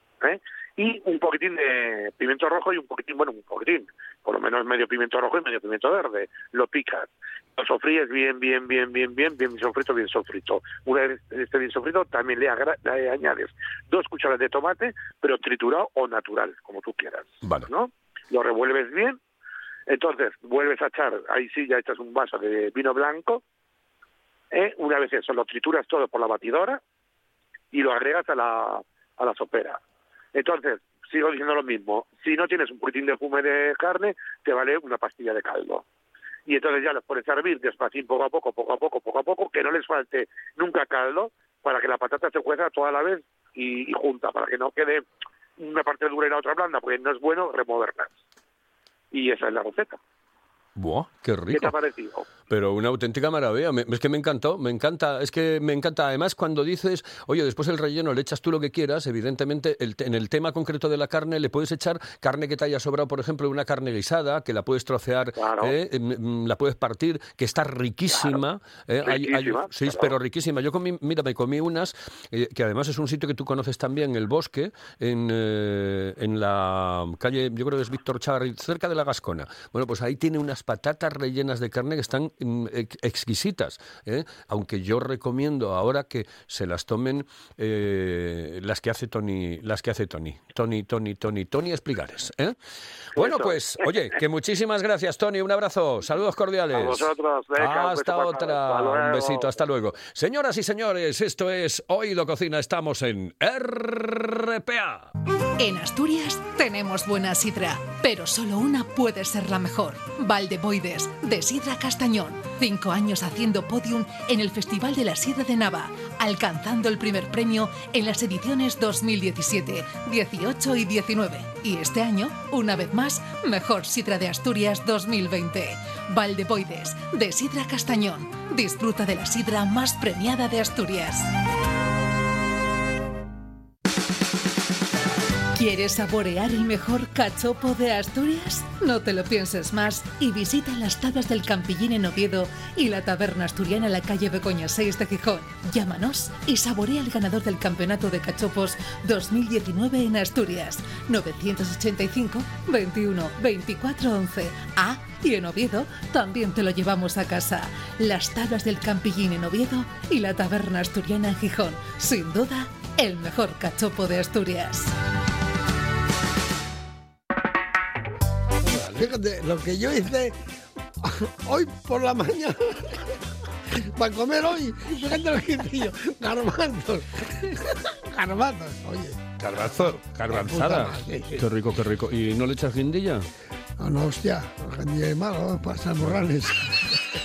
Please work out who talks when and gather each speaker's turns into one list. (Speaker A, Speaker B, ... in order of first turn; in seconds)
Speaker A: 0.2-19.2, 19.9-23.4, 24.5-26.8, 27.7-29.8, 30.3-35.8, 36.5-45.0, 45.6-48.1, 49.1-50.0, 51.5-52.3, 65.4-65.8, 69.0-70.1, 93.2-93.6, 96.7-99.5
Speaker B: 17.4-17.7, 50.8-51.7, 52.5-92.6, 93.1-105.1, 179.4-183.3
Speaker C: 105.6-131.3, 135.6-164.9
Speaker D: 168.7-170.4, 171.0-173.0, 173.9-181.4, 183.8-186.8